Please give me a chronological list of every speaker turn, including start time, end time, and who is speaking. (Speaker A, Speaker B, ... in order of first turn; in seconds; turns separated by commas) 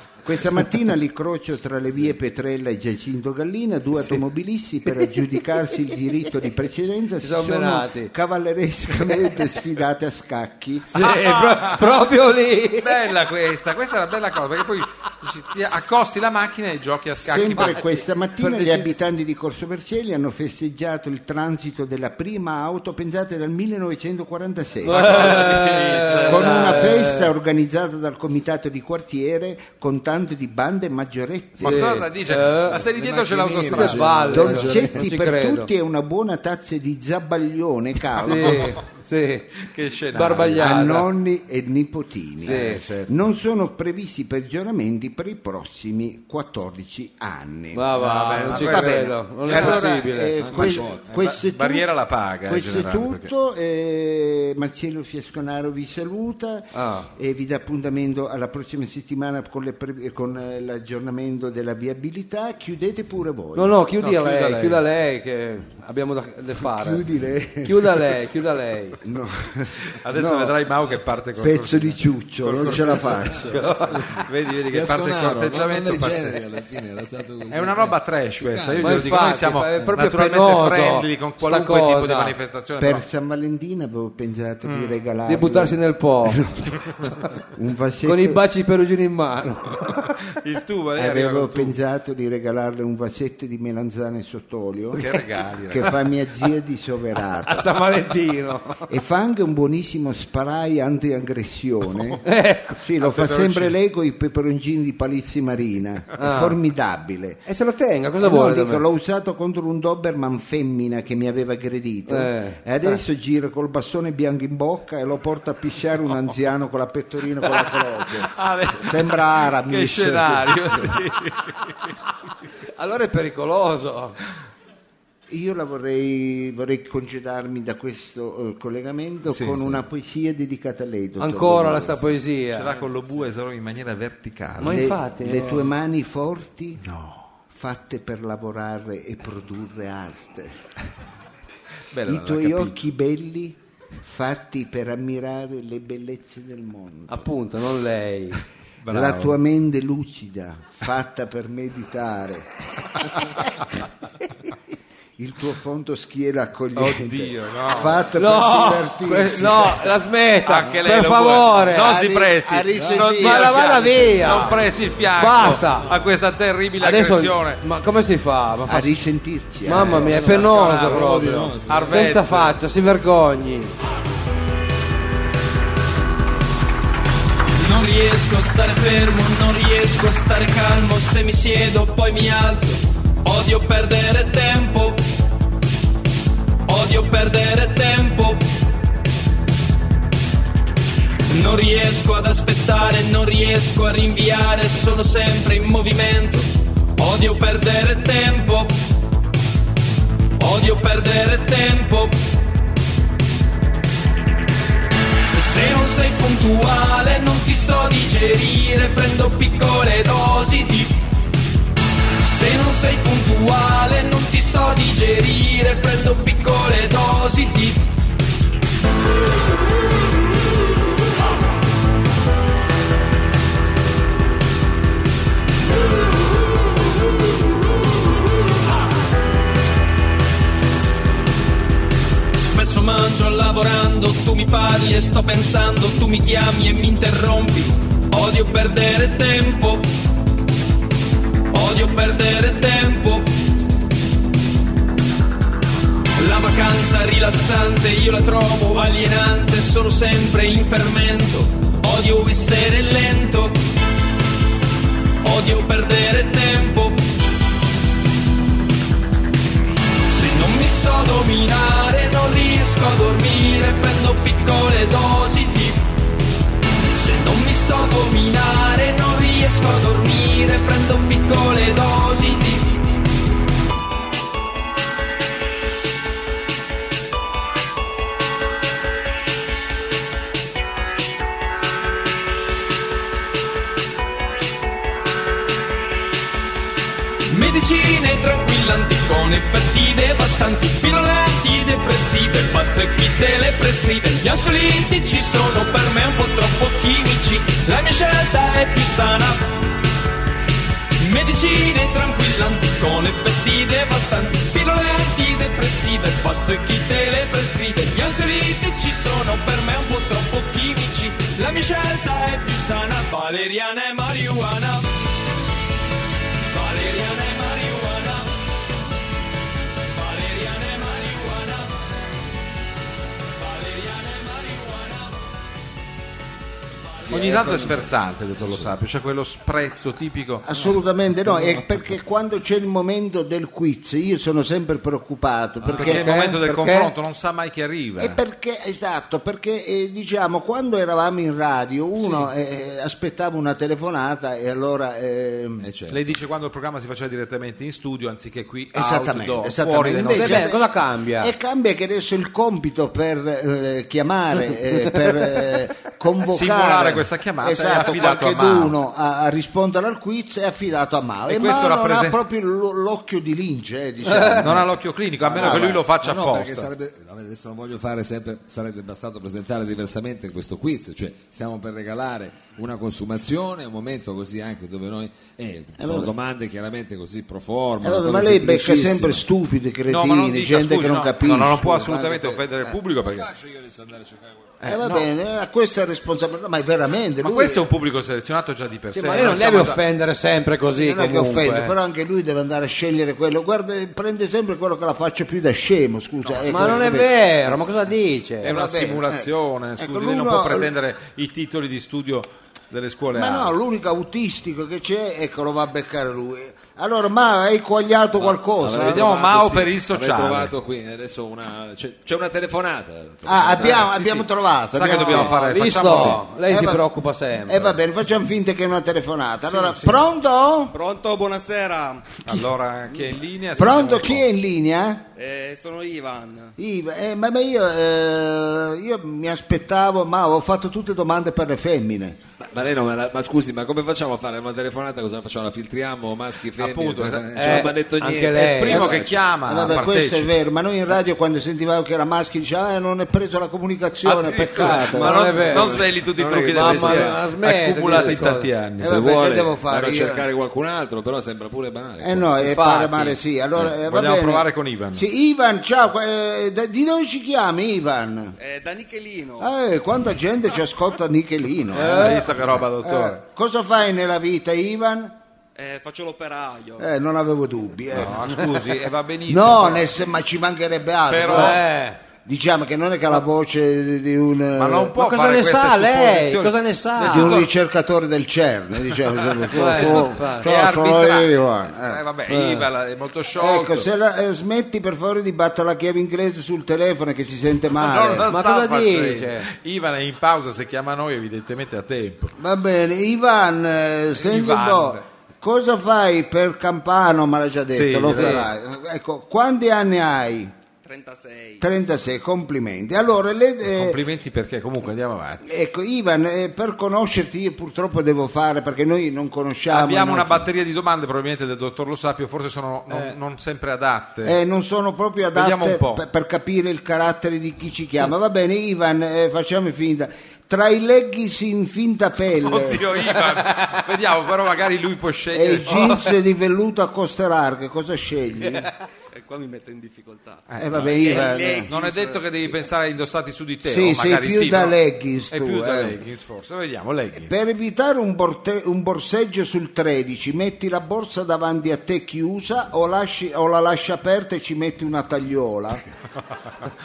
Speaker A: 0.2-10.9, Speaker B: 7.2-8.1, Speaker B: 10.9-13.0, Speaker C: 10.9-12.1, Speaker C: 12.8-17.8, Speaker A: 17.2-25.5, Speaker B: 18.4-18.9, Speaker B: 24.9-27.3, Speaker C: 24.9-26.9, Speaker A: 26.2-31.9, Speaker B: 31.6-32.8, Speaker C: 31.6-34.3, Speaker D: 32.7-35.1, Speaker B: 33.6-35.7, Speaker A: 34.3-38.7, Speaker B: 38.2-41.1, Speaker C: 38.3-38.8, Speaker C: 39.6-40.9, Speaker A: 40.6-51.9, Speaker B: 42.4-42.8, Speaker C: 42.5-43.1, Speaker B: 47.7-50.4, Speaker C: 47.9-53.3, Speaker D: 50.4-51.2, Speaker A: 52.5-63.8, Speaker B: 56.7-57.1, Speaker B: 63.5-67.0, Speaker C: 64.0-64.8, Speaker A: 66.6-68.1, Speaker B: 67.6-69.0, Speaker A: 69.0-70.6, Speaker C: 70.0-76.4, Speaker A: 71.4-73.6, Speaker D: 72.6-74.0, Speaker B: 73.3-74.2, Speaker D: 74.7-79.1, Speaker C: 77.5-83.0, Speaker B: 78.8-82.3, Speaker A: 82.8-86.8, Speaker C: 84.6-85.0, Speaker B: 85.2-86.4, Speaker A: 87.5-88.4, Speaker B: 88.0-90.1, Speaker C: 90.3-91.8, Speaker A: 91.0-95.2, Speaker C: 94.9-96.0, Speaker A: 95.7-97.7, Speaker B: 97.4-98.9, Speaker A: 98.9-102.2, Speaker B: 102.2-102.8, Speaker A: 102.8-107.5, Speaker C: 103.0-103.7, Speaker B: 106.2-106.6, Speaker B: 107.5-108.8, Speaker A: 108.2-121.0, Speaker B: 112.1-113.0, Speaker C: 118.3-121.9, Speaker B: 122.7-124.2, Speaker A: 125.3-132.1, Speaker C: 129.3-129.8, Speaker B: 131.2-132.7, Speaker C: 132.5-134.9, Speaker B: 134.6-135.7, Speaker A: 134.6-136.8, Speaker C: 136.8-137.2, Speaker A: 137.5-140.6, Speaker C: 141.9-142.8, Speaker A: 142.1-147.3, Speaker B: 147.1-148.4, Speaker C: 148.8-149.4, Speaker A: 148.9-152.6, Speaker A: 155.2-159.9, Speaker C: 156.7-158.1, Speaker B: 158.1-162.0, Speaker C: 160.4-167.6, Speaker A: 161.8-164.8, Speaker D: 162.7-163.1, Speaker B: 163.1-165.9, Speaker B: 166.8-168.9, Speaker A: 168.7-170.1, Speaker B: 169.6-173.7, Speaker D: 169.7-172.3, Speaker C: 170.0-172.6, Speaker E: 177.6-185.0, Speaker E: 186.7-188.4, Speaker E: 191.3-198.7, Speaker E: 200.4-202.2, Speaker E: 205.3-211.0, Speaker E: 212.2-217.9, Speaker E: 232.3-239.9, Speaker E: 241.5-243.3, Speaker E: 246.2-253.6, Speaker E: 255.2-257.0, Speaker E: 260.1-265.9, Speaker E: 266.9-272.8, Speaker E: 287.2-299.5, Speaker E: 301.0-314.9, Speaker E: 316.5-318.4, Speaker E: 319.9-321.9, Speaker E: 323.4-325.2, Speaker E: 326.9-327.3, Speaker C: 327.1-330.4, Speaker D: 327.4-327.8, Speaker D: 328.4-328.7, Speaker A: 330.4-336.1, Speaker B: 335.7-336.9, Speaker C: 335.7-338.2, Speaker A: 338.0-345.7, Speaker C: 342.0-342.3, Speaker D: 345.6-346.1, Speaker C: 345.9-350.5, Speaker A: 348.7-364.7, Speaker B: 350.1-351.3, Speaker C: 356.3-358.8, Speaker C: 361.3-362.2, Speaker B: 364.1-364.5, Speaker C: 364.4-366.7, Speaker D: 365.2-379.2, Speaker A: 365.3-365.8, Speaker A: 375.8-376.1, Speaker A: 377.8-382.7, Speaker C: 379.9-383.3, Speaker D: 383.1-384.6, Speaker C: 384.6-385.1, Speaker A: 384.6-387.6, Speaker C: 387.2-389.8, Speaker B: 388.9-391.7, Speaker A: 390.7-397.6, Speaker C: 396.3-396.9, Speaker B: 396.5-398.5, Speaker A: 398.4-400.7, Speaker C: 398.4-403.5, Speaker A: 403.1-409.0, Speaker D: 408.2-414.0, Speaker C: 408.7-410.5, Speaker A: 413.2-416.9, Speaker C: 414.0-416.2, Speaker B: 414.9-417.8, Speaker A: 417.4-420.7, Speaker C: 419.5-420.0, Speaker C: 422.2-424.2, Speaker A: 423.6-425.1, Speaker A: 426.6-432.2, Speaker D: 432.4-439.2, Speaker C: 436.6-437.7, Speaker B: 437.4-438.9, Speaker C: 438.3-440.3, Speaker A: 439.4-445.2, Speaker C: 444.0-448.9, Speaker B: 444.6-445.9, Speaker D: 445.9-447.2, Speaker B: 446.4-448.5, Speaker D: 447.9-448.3, Speaker D: 448.8-452.3, Speaker A: 448.8-450.2, Speaker A: 452.0-458.4, Speaker B: 452.4-453.2, Speaker C: 453.6-455.0, Speaker F: 458.4-459.4, Speaker A: 459.4-465.2, Speaker B: 461.7-462.3, Speaker C: 461.8-463.2, Speaker F: 465.6-466.8, Speaker A: 466.8-468.3, Speaker C: 467.9-469.9, Speaker A: 469.3-471.6, Speaker C: 471.1-471.6, Speaker B: 471.2-472.0, Speaker A: 472.2-474.9, Speaker C: 474.6-477.5, Speaker B: 474.9-477.4, Speaker A: 477.0-482.0, Speaker B: 479.5-480.4, Speaker C: 479.6-483.9, Speaker B: 482.3-482.6, Speaker A: 483.4-488.3, Speaker C: 487.8-492.3, Speaker B: 488.3-489.5, Speaker A: 492.4-500.5, Speaker C: 494.1-495.0, Speaker C: 497.7-498.5, Speaker B: 498.1-498.4, Speaker F: 500.9-501.6, Speaker A: 501.6-504.0, Speaker C: 503.6-505.4, Speaker A: 505.4-510.4, Speaker C: 509.7-514.4, Speaker B: 512.9-513.1, Speaker A: 514.2-522.9, Speaker C: 515.3-516.0, Speaker C: 522.4-526.1, Speaker A: 525.3-528.7, Speaker F: 529.1-530.4, Speaker C: 530.5-534.8, Speaker A: 530.6-531.7, Speaker F: 531.0-532.1, Speaker A: 533.6-536.0, Speaker C: 535.3-537.4, Speaker A: 537.3-545.8